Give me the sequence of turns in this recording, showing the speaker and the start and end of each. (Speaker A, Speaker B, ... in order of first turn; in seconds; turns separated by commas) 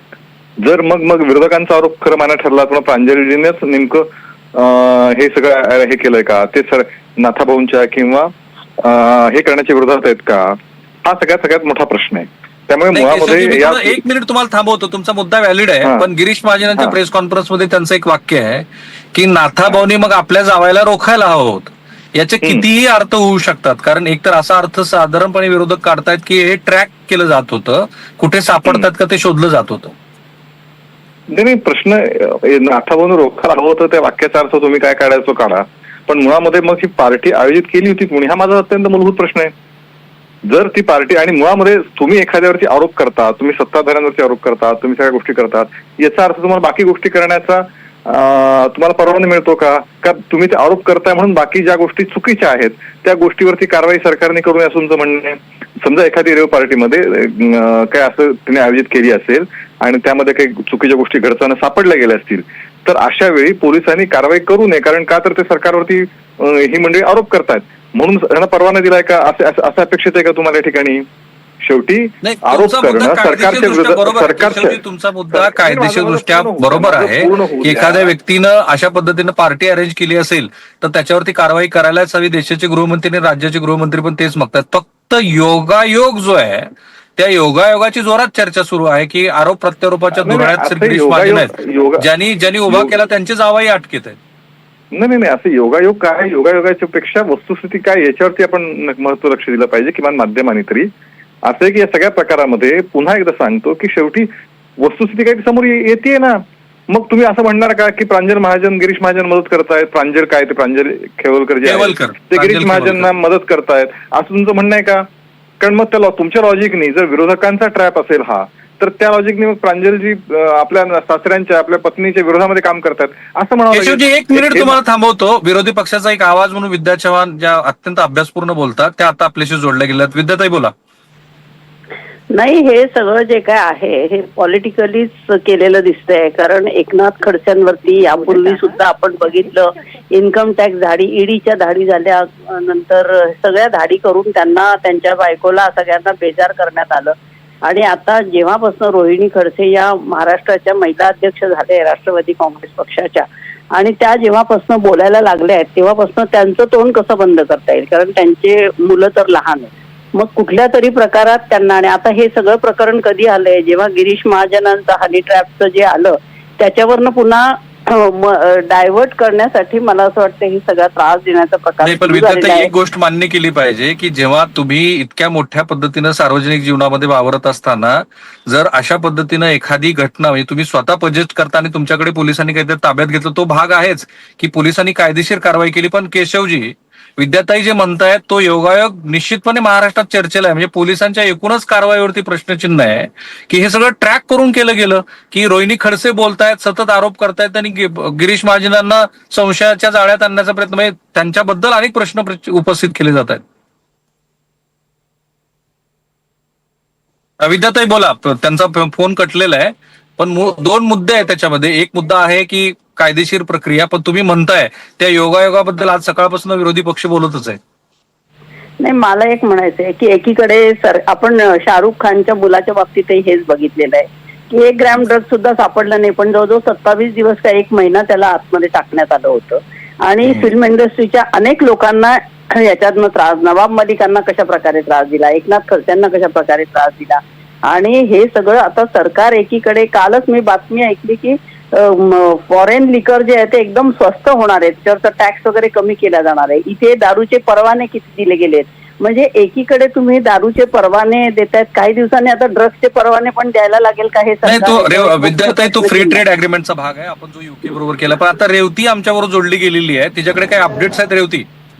Speaker A: 0.6-14.0, Speaker B: 12.9-29.9, Speaker A: 31.3-39.5, Speaker A: 40.4-71.0, Speaker A: 71.6-74.8, Speaker B: 72.2-94.2, Speaker A: 75.3-78.1, Speaker A: 90.1-92.1, Speaker A: 92.7-92.9, Speaker A: 94.9-100.9, Speaker A: 101.4-115.0, Speaker B: 111.6-113.1, Speaker A: 115.6-124.8, Speaker B: 123.7-130.7, Speaker C: 132.3-147.1, Speaker C: 147.7-172.7, Speaker B: 171.8-203.4, Speaker B: 207.4-217.6, Speaker C: 218.8-256.2, Speaker B: 230.2-230.5, Speaker B: 254.4-261.5